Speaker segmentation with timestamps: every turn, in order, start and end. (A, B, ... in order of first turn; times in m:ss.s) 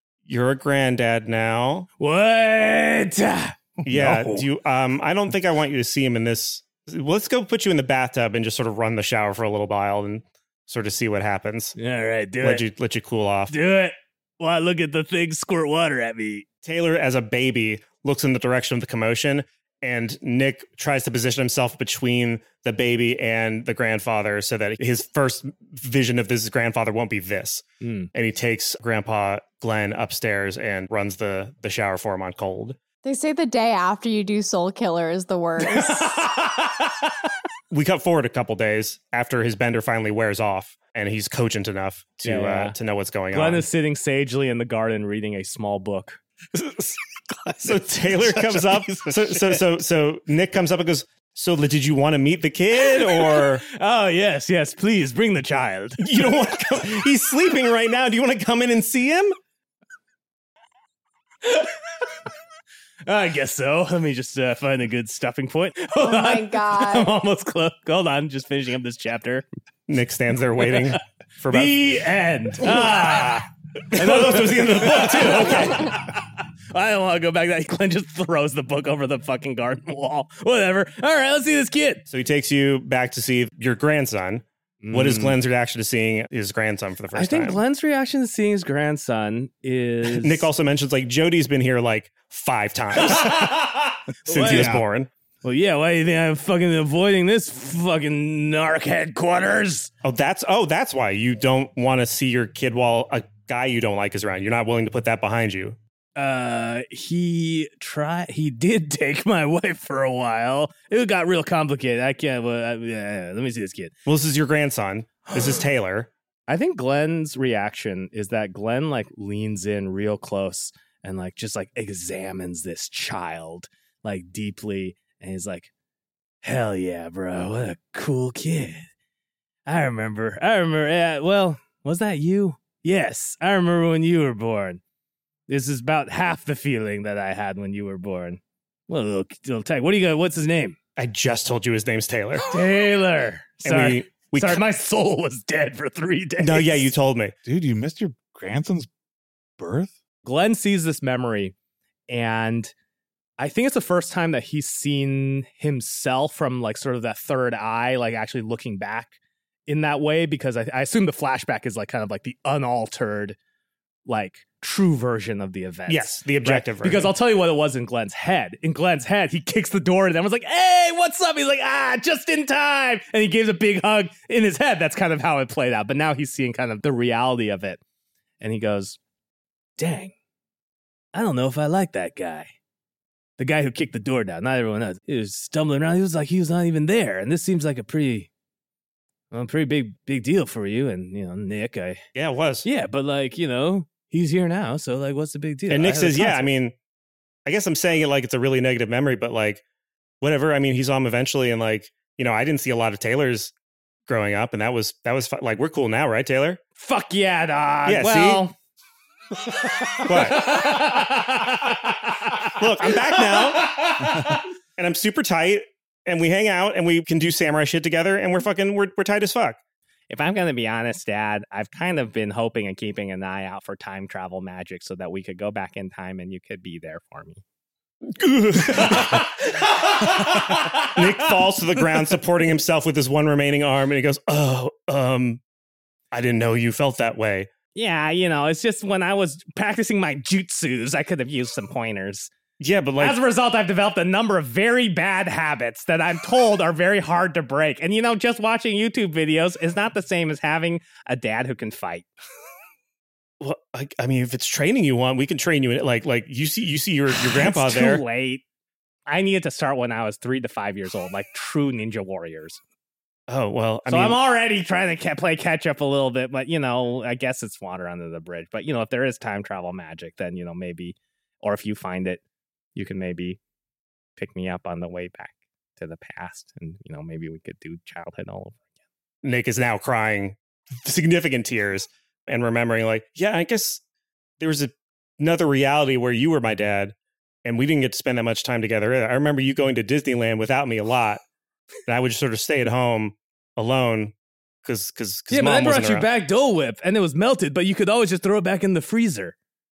0:00.3-0:01.9 A
0:02.0-0:03.6 B
0:03.8-0:11.8 A
0:03.9-0:04.4 C
0:11.8-0:12.7 B
0:12.4-0:13.6 A
0:13.5-0:16.5 B
0:16.6-0:32.8 A
0:27.8-0:28.1 B
0:33.0-0:36.2 D
0:35.6-0:36.8 B
0:37.7-0:43.7 A
0:42.2-0:42.8 B
0:43.3-0:46.2 B
0:47.4-0:49.6 C
0:47.6-0:53.6 A
0:53.0-0:56.0 B
0:56.0-0:59.4 A
1:03.1-1:09.5 B
1:06.0-1:07.1 D
1:09.9-1:11.8 A
1:10.6-1:11.0 B
1:11.5-1:22.1 B
1:13.9-1:15.9 A
1:22.1-1:27.6 A
1:24.8-1:25.4 B
1:27.1-1:30.5 B
1:30.0-1:33.6 A
1:33.0-1:34.8 B
1:34.3-1:35.1 A
1:34.4-1:34.8 C
1:35.4-1:39.9 B
1:40.0-1:45.8 A
1:46.2-1:53.9 B
1:54.1-1:56.1 A
1:56.5-2:05.7 B
2:06.4-2:08.9 B
2:09.7-2:14.8 B
2:15.5-2:20.8 B
2:21.0-2:22.5 A
2:22.4-2:26.9 B
2:23.6-2:24.6 A
2:26.4-2:27.3 A
2:27.4-2:28.9 C
2:29.6-2:29.9 C
2:30.2-2:31.5 B
2:32.1-2:32.7 B
2:33.4-2:39.1 B
2:39.7-2:43.4 B
2:44.1-2:57.8 B
2:45.9-2:47.1 A
2:58.4-2:59.0 B
2:59.8-3:00.1 B
3:01.1-3:02.5 B
3:03.4-3:08.3 B
3:09.3-3:12.0 B
3:12.2-3:12.7 A
3:12.6-3:16.5 B
3:15.7-3:16.8 A
3:17.5-3:19.6 A
3:20.2-3:23.5 A
3:24.1-3:26.6 A
3:26.8-3:28.5 B
3:27.8-3:28.4 A
3:29.6-3:34.4 B
3:30.1-3:30.6 A
3:32.6-3:33.9 A
3:34.8-3:39.6 A
3:40.1-3:47.4 B
3:48.1-3:55.4 A
3:48.7-3:49.2 B
3:50.5-3:51.0 B
3:56.1-3:57.5 A
3:57.8-4:02.3 B
4:02.6-4:03.2 A
4:03.0-4:12.1 B
4:13.4-4:18.0 A
4:17.1-4:18.4 B
4:19.1-4:22.6 B
4:23.3-4:24.2 A
4:23.9-4:32.2 B
4:32.8-4:33.4 B
4:34.2-4:38.7 B
4:39.2-4:43.8 A
4:44.4-4:46.9 A
4:47.4-4:51.2 A
4:51.9-4:56.1 A
4:55.3-4:59.4 B